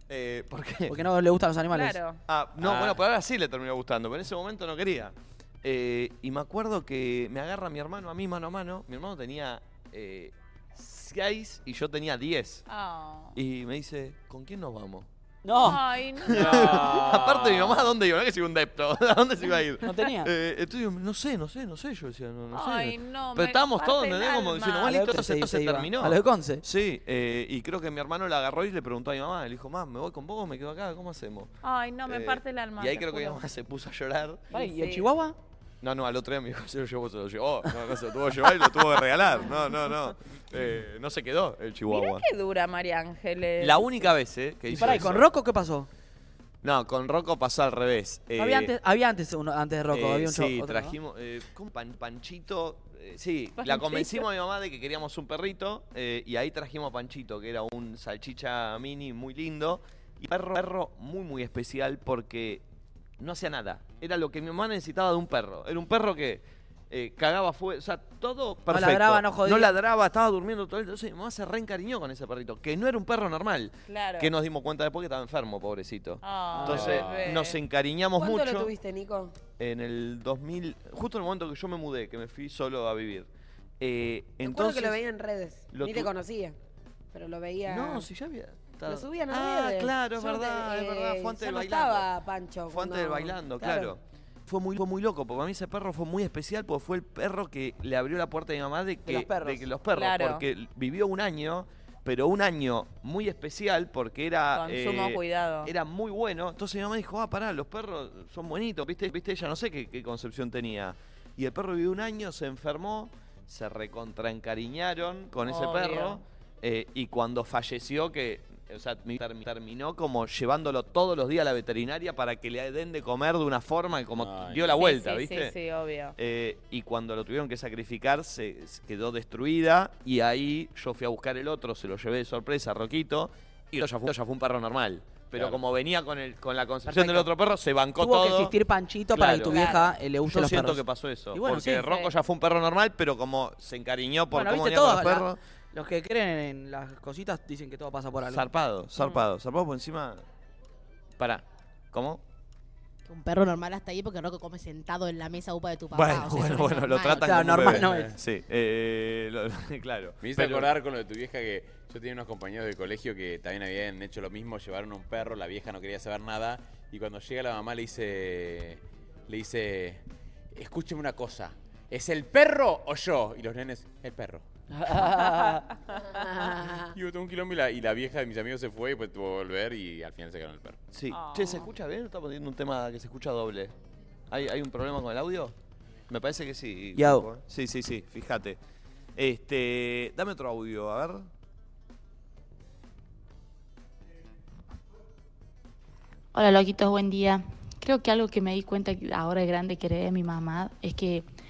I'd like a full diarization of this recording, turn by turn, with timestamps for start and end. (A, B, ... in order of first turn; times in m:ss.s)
0:00.1-0:01.0 A
0:00.9-0:02.0 B
0:01.7-0:02.2 C
0:02.3-0:12.6 A
0:02.6-0:03.0 D
0:12.7-0:13.4 C
0:13.4-0:15.1 A
0:15.4-0:15.8 B
0:15.6-0:16.8 C
0:16.3-0:31.5 A
0:16.3-0:17.9 D
0:19.8-0:20.3 B
0:22.5-0:24.9 C
0:24.8-0:26.6 B
0:31.6-0:33.4 C
0:32.1-0:34.5 A
0:34.5-0:35.1 C
0:34.5-0:35.4 B
0:35.8-0:42.2 A
0:41.9-0:44.0 C
0:43.6-0:45.3 A
0:44.7-0:45.9 B
0:46.6-0:48.7 A
0:48.4-0:51.0 B
0:49.9-1:02.6 A
0:53.6-0:54.3 C
1:03.2-1:18.7 A
1:08.7-1:09.7 B
1:13.9-1:14.3 C
1:16.2-1:17.6 C
1:16.6-1:17.3 D
1:18.2-1:19.4 E
1:19.6-1:23.3 A
1:23.8-1:25.0 A
1:24.4-1:26.6 E
1:25.7-1:26.1 A
1:27.1-1:28.1 E
1:27.7-1:32.1 A
1:28.9-1:33.9 E
1:32.7-2:05.6 A
1:39.1-1:39.7 B
1:39.9-1:40.4 C
1:44.5-1:45.7 C
1:55.4-1:56.2 C
2:04.2-2:04.8 D
2:04.7-2:06.2 C
2:06.2-2:18.6 A
2:15.3-2:15.6 D
2:16.9-2:17.3 B
2:18.0-2:20.8 B
2:19.1-2:19.7 A
2:19.5-2:19.9 C
2:20.2-2:25.4 A
2:21.3-2:22.1 B
2:24.3-2:28.5 B
2:28.2-2:30.2 A
2:31.2-2:32.2 A
2:33.1-2:37.4 F
2:35.9-2:40.7 A
2:37.2-2:38.2 B
2:37.5-2:38.1 D
2:40.2-2:50.0 D
2:50.5-2:54.4 D
2:54.7-2:55.6 B
2:56.1-2:56.9 E
2:56.9-3:00.8 D
3:00.9-3:03.7 A
3:01.1-3:01.7 C
3:04.3-3:05.5 A
3:06.1-3:08.6 A
3:07.0-3:07.3 B
3:09.2-3:11.3 A
3:16.3-3:21.3 G